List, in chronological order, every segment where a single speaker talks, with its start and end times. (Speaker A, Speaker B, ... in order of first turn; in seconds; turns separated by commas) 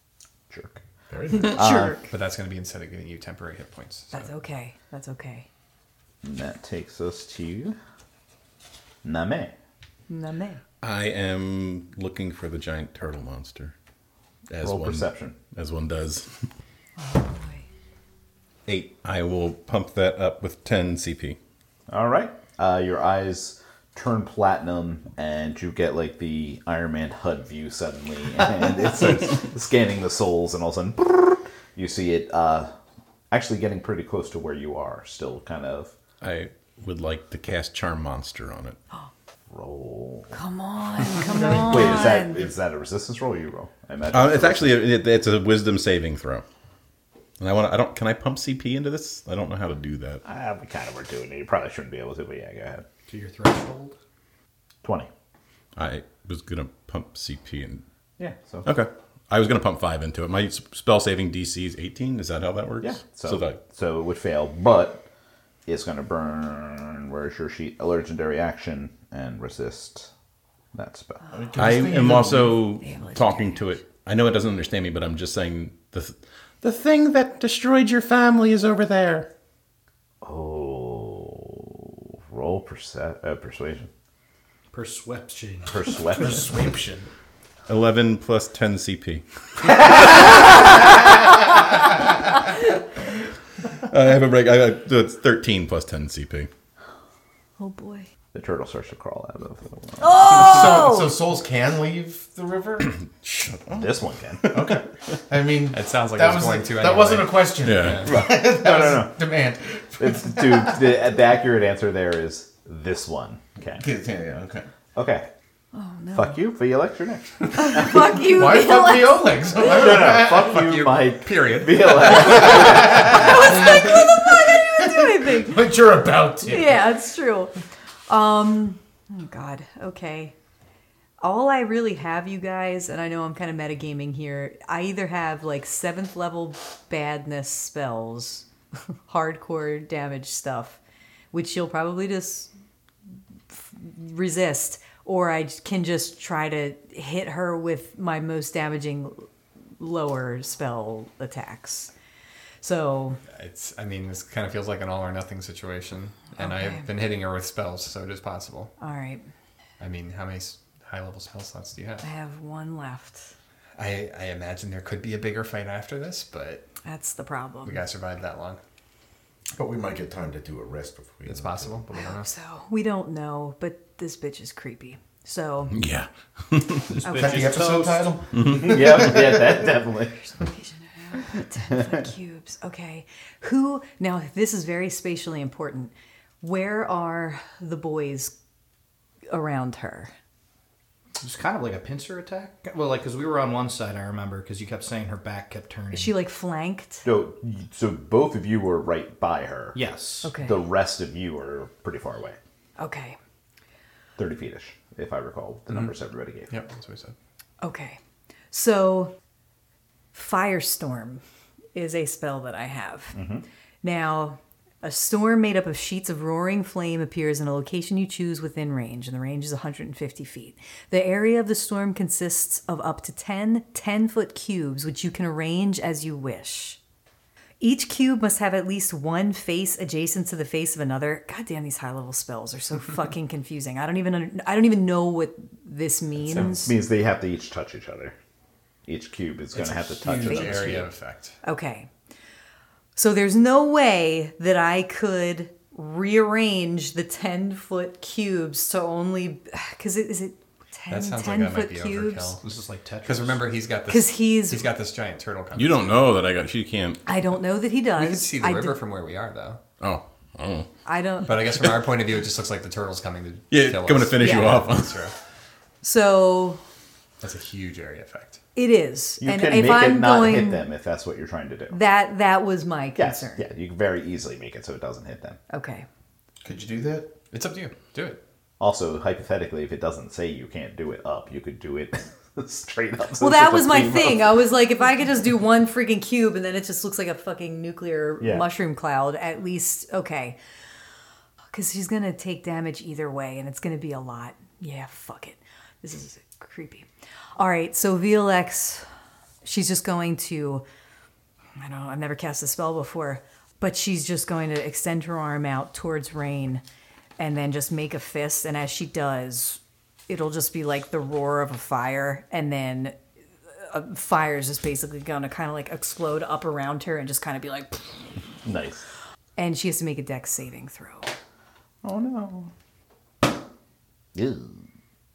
Speaker A: 0.5-0.8, Speaker B: 1.1-1.6, Speaker A: 1.3-2.0, Speaker C: 1.3-2.1, Speaker D: 2.1-4.3, Speaker C: 4.1-5.5, Speaker A: 6.2-7.8, Speaker A: 9.0-9.5, Speaker C: 10.1-10.6, Speaker E: 10.8-13.7, Speaker E: 14.5-16.3, Speaker A: 14.6-15.4, Speaker C: 17.0-17.6, Speaker E: 18.6-21.4, Speaker A: 21.9-32.7, Speaker A: 33.3-35.9, Speaker E: 36.2-38.8, Speaker A: 39.5-40.4, Speaker C: 40.3-42.4, Speaker A: 41.3-44.9, Speaker B: 41.4-42.2, Speaker E: 44.1-46.4, Speaker E: 47.4-50.2, Speaker A: 50.2-52.8, Speaker F: 53.1-54.0, Speaker A: 54.8-55.1, Speaker E: 55.8-57.8, Speaker A: 58.2-58.8, Speaker E: 58.6-63.6, Speaker A: 62.8-65.0, Speaker A: 65.7-70.1, Speaker A: 70.7-71.2, Speaker B: 71.3-72.7, Speaker E: 71.6-79.3, Speaker C: 72.8-73.8, Speaker A: 80.2-83.9, Speaker F: 84.7-86.5, Speaker A: 85.7-86.5, Speaker B: 86.2-87.1, Speaker E: 87.7-90.5, Speaker E: 93.9-96.5, Speaker C: 97.6-98.1, Speaker A: 98.3-100.6, Speaker C: 100.0-101.1, Speaker B: 100.2-103.0, Speaker E: 103.2-104.8, Speaker A: 103.7-104.4, Speaker B: 104.5-110.9, Speaker D: 105.7-108.1, Speaker E: 107.6-108.1, Speaker A: 108.0-109.2, Speaker A: 110.0-113.8, Speaker B: 113.8-114.7, Speaker A: 114.9-115.3, Speaker C: 115.7-116.4, Speaker A: 116.1-118.0, Speaker C: 117.5-119.6, Speaker B: 117.7-120.8, Speaker A: 119.6-123.7, Speaker D: 120.4-122.4, Speaker C: 122.4-125.7, Speaker B: 122.5-126.8, Speaker C: 126.4-127.5, Speaker C: 128.1-130.3, Speaker C: 131.2-138.4, Speaker C: 139.1-140.8, Speaker C: 141.3-142.5, Speaker C: 143.5-149.3, Speaker C: 149.8-151.9, Speaker C: 152.6-153.2, Speaker D: 153.3-158.7, Speaker C: 156.4-156.9, Speaker C: 158.8-159.2, Speaker D: 159.8-162.1, Speaker C: 162.0-163.3, Speaker D: 163.8-166.7, Speaker C: 166.8-167.8, Speaker D: 167.7-168.6, Speaker B: 169.6-171.8, Speaker D: 171.2-172.3, Speaker C: 171.9-175.8, Speaker E: 175.7-176.9, Speaker F: 176.9-178.2, Speaker C: 177.0-177.6, Speaker B: 177.1-179.7, Speaker E: 178.3-178.8, Speaker A: 178.4-180.2, Speaker C: 180.2-188.3, Speaker A: 181.7-182.0, Speaker C: 189.3-190.1, Speaker F: 191.2-196.2, Speaker C: 195.9-197.0, Speaker A: 197.0-199.8, Speaker F: 199.7-200.3, Speaker C: 200.2-200.5, Speaker A: 200.3-202.4, Speaker C: 202.8-203.2, Speaker A: 204.2-206.5, Speaker D: 205.7-205.9, Speaker D: 206.5-207.1, Speaker C: 207.6-208.0, Speaker C: 208.5-209.1, Speaker C: 210.1-211.2, Speaker C: 211.7-213.2, Speaker A: 213.1-213.4, Speaker C: 213.8-226.8, Speaker C: 227.6-236.7, Speaker A: 236.3-238.1, Speaker A: 238.9-240.9, Speaker D: 239.5-241.3, Speaker C: 240.2-240.8, Speaker C: 241.4-241.9, Speaker C: 242.9-252.4, Speaker D: 250.9-252.4, Speaker F: 252.4-253.5, Speaker D: 253.1-256.1, Speaker C: 253.9-254.7, Speaker E: 255.5-257.0, Speaker C: 257.1-258.8, Speaker D: 257.9-259.6, Speaker E: 259.8-260.7, Speaker C: 260.9-261.3, Speaker D: 261.3-265.1, Speaker E: 263.5-265.1, Speaker C: 264.2-264.6, Speaker C: 265.8-266.6, Speaker D: 267.2-268.4, Speaker C: 268.6-270.7, Speaker A: 269.2-271.8, Speaker C: 271.7-273.4, Speaker A: 273.0-275.4, Speaker C: 275.5-275.9, Speaker B: 276.4-277.1, Speaker D: 277.3-278.2, Speaker A: 278.6-284.4, Speaker C: 283.2-290.4, Speaker A: 288.2-288.4, Speaker C: 291.5-298.8, Speaker C: 299.4-300.6, Speaker C: 301.6-306.6, Speaker C: 307.2-313.0, Speaker C: 313.6-318.0, Speaker A: 318.4-318.8, Speaker C: 319.4-321.1, Speaker A: 321.8-322.5, Speaker A: 324.1-324.6